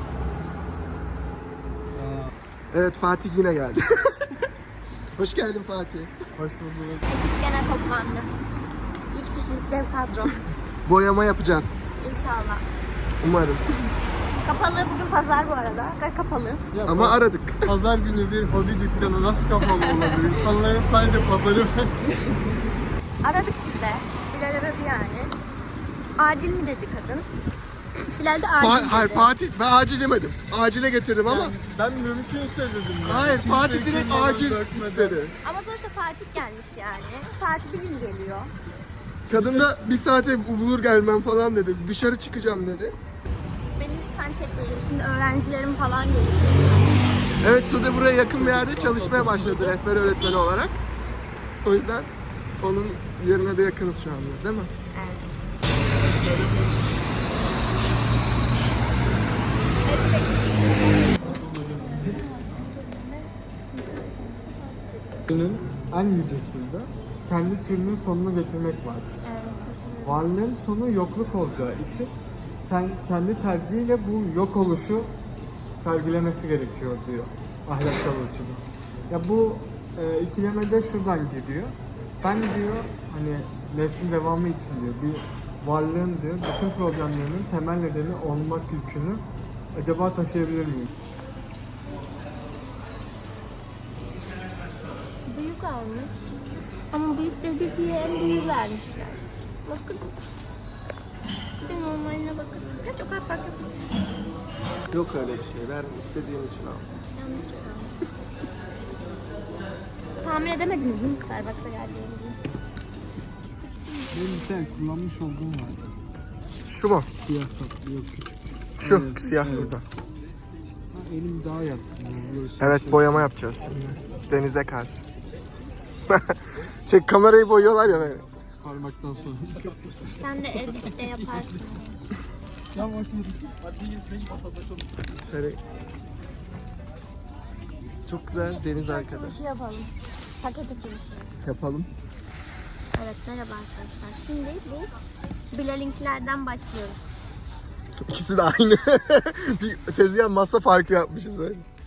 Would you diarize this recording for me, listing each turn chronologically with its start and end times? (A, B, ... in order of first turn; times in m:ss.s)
0:01.9-0:02.3 A
0:02.7-0:04.4 B
0:05.2-0:06.1 B
0:06.4-0:07.1 A
0:07.0-0:08.3 C
0:09.1-0:10.4 C
0:10.9-0:12.0 B
0:12.0-0:12.6 C
0:13.2-0:13.6 B
0:14.4-0:16.6 C
0:16.7-0:22.0 A
0:16.9-0:17.6 B
0:19.6-0:20.3 C
0:23.2-0:25.3 C
0:26.2-0:27.3 C
0:28.2-0:29.3 C
0:28.6-0:31.6 B
0:31.2-0:35.2 A
0:33.0-0:35.4 B
0:35.4-0:38.5 C
0:39.3-0:39.8 A
0:39.3-0:43.0 B
0:43.8-0:47.0 C
0:47.4-0:50.8 B
0:48.1-0:49.7 A
0:49.4-0:50.2 C
0:51.6-0:52.1 B
0:52.6-0:54.7 B
0:54.9-0:55.4 C
0:59.8-1:05.0 C
1:05.3-1:09.2 A
1:09.2-1:10.3 C
1:10.0-1:12.1 A
1:12.7-1:15.1 A
1:15.7-1:30.9 A
1:35.3-1:36.4 C
1:36.9-1:40.1 C
1:41.6-1:43.8 C
1:44.9-1:46.9 B
1:47.2-1:48.0 C
1:50.2-1:52.4 C
1:53.5-1:54.9 C
1:54.1-1:55.9 A
1:56.7-1:57.1 B
1:57.2-1:59.8 A
1:58.8-1:59.8 B
2:00.9-2:03.3 A
2:02.6-2:05.0 B
2:06.1-2:08.3 B
2:08.6-2:10.1 A
2:10.2-2:12.0 C
2:11.0-2:11.4 A
2:12.7-2:15.0 A
2:15.2-2:15.6 B
2:18.1-2:19.4 B
2:18.3-2:21.3 C
2:21.4-2:21.9 B
2:23.0-2:24.9 C
2:25.5-2:27.0 C
2:28.0-2:31.6 B